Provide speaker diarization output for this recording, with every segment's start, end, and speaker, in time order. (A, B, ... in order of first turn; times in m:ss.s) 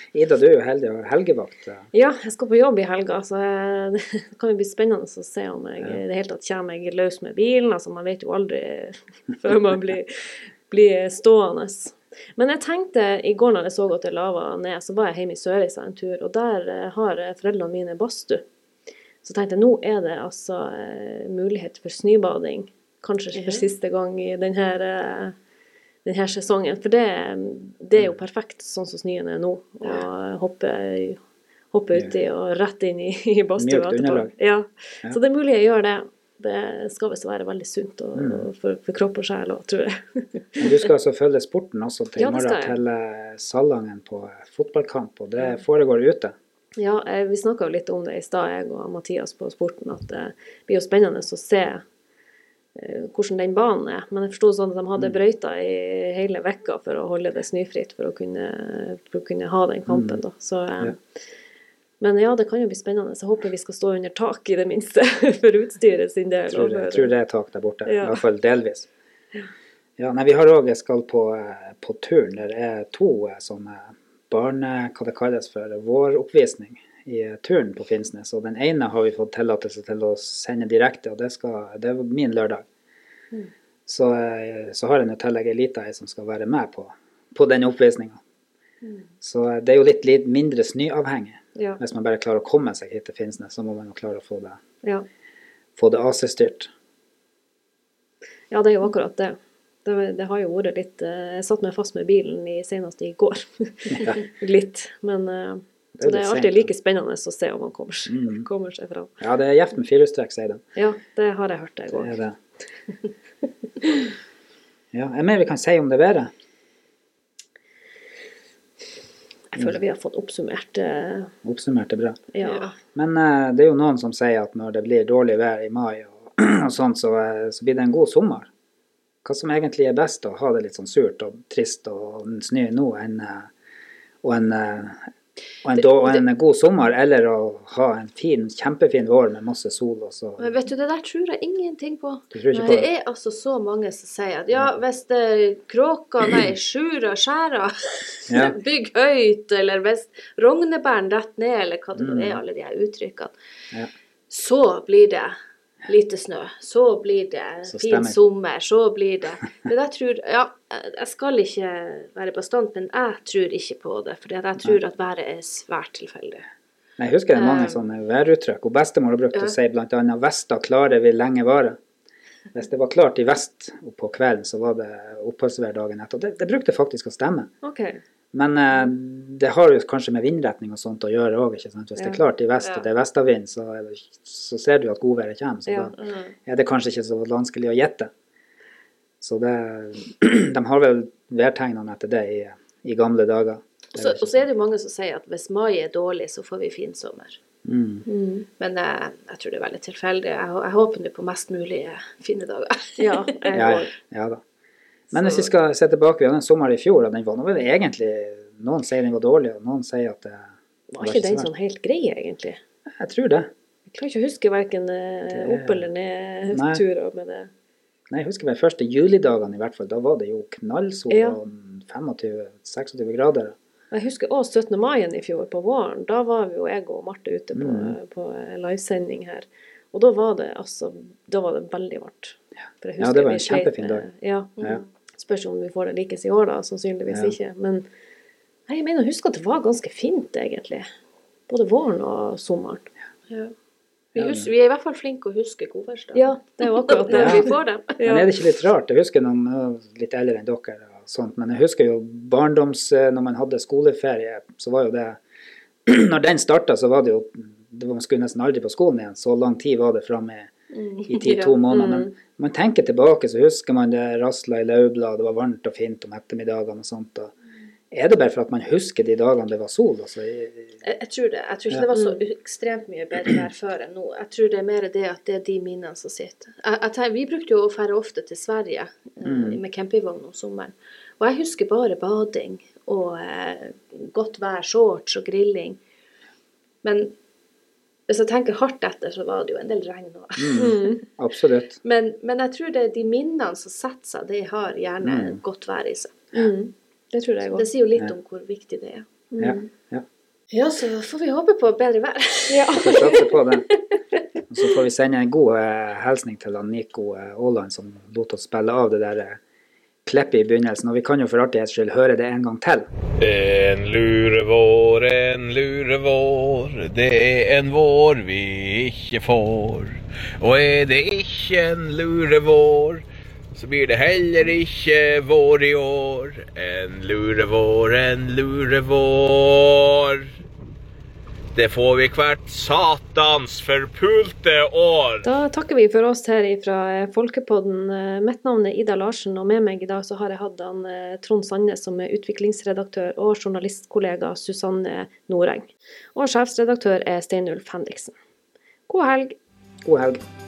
0:00.1-0:01.9 A
0:01.9-0:10.1 B
0:10.7-0:18.4 B
0:19.2-0:25.3 B
0:23.3-0:23.7 C
0:26.0-0:31.2 B
0:31.7-0:40.6 B
0:33.6-0:34.3 A
0:38.1-0:38.4 A
0:40.6-0:46.3 A
0:42.2-0:42.8 B
0:46.8-0:51.8 B
0:52.7-1:01.0 B
0:59.9-1:00.2 A
1:02.0-1:07.1 B
1:06.5-1:08.9 A
1:07.8-1:08.2 B
1:10.0-1:22.6 A
1:23.9-1:28.2 A
1:29.2-1:34.6 A
1:35.8-1:36.7 A
1:38.5-1:49.1 B
1:43.9-1:44.2 A
1:45.9-1:46.7 A
1:48.1-1:48.4 A
1:49.2-1:50.6 A
1:50.8-1:52.1 B
1:51.9-1:52.4 A
1:54.9-1:56.3 A
1:59.5-2:01.3 B
2:01.4-2:02.3 A
2:02.3-2:02.7 B
2:02.4-2:02.7 C
2:02.9-2:08.5 A
2:09.2-2:13.5 A
2:14.2-2:15.1 A
2:15.6-2:20.5 A
2:20.4-2:33.3 C
2:22.3-2:22.9 A
2:28.3-2:28.6 A
2:32.0-2:32.4 A
2:34.3-2:46.5 C
2:37.7-2:38.2 A
2:47.0-2:51.8 A
2:47.3-2:47.8 C
2:52.5-2:57.5 A
2:57.6-2:58.0 B
2:58.3-3:05.9 A
3:05.6-3:05.9 B
3:06.0-3:06.3 C
3:06.4-3:08.1 A
3:09.2-3:14.4 A
3:13.9-3:17.4 C
3:17.6-3:18.0 A
3:18.0-3:18.4 B
3:18.6-3:23.2 C
3:23.0-3:23.9 B
3:23.5-3:24.4 A
3:25.1-3:31.5 A
3:25.2-3:25.4 B
3:30.9-3:32.6 B
3:33.0-3:33.5 A
3:33.9-3:37.5 B
3:35.3-3:35.8 A
3:36.5-3:36.8 A
3:38.1-3:43.5 A
3:41.1-3:41.4 B
3:43.9-3:54.6 B
3:47.5-3:47.9 A
3:53.0-3:54.1 A
3:55.2-3:57.8 B
3:57.1-3:57.4 A
3:58.7-4:00.9 B
4:01.5-4:02.9 B
4:04.1-4:07.8 C
4:04.2-4:04.5 A
4:06.1-4:08.3 B
4:07.1-4:15.2 A
4:15.8-4:20.5 A
4:20.7-4:21.6 C
4:21.1-4:27.3 A
4:21.7-4:22.1 B
4:27.9-4:30.8 A
4:30.8-4:45.8 C
4:31.9-4:32.2 B
4:39.2-4:39.6 A
4:46.8-4:47.1 C
4:48.1-4:50.8 C
4:50.4-4:51.8 A
4:50.5-4:51.0 B
4:51.8-4:56.3 C
4:55.0-4:55.4 A
4:56.3-4:57.6 B
4:57.5-4:59.1 C
4:59.3-4:59.6 B
4:59.4-5:00.0 A
5:00.5-5:03.2 C
5:02.5-5:03.3 B
5:02.7-5:03.7 A
5:04.5-5:09.4 A
5:10.0-5:12.9 A
5:13.2-5:30.3 D
5:31.5-5:35.3 D
5:35.2-5:48.1 B
5:48.9-5:49.4 B
5:49.8-5:50.2 A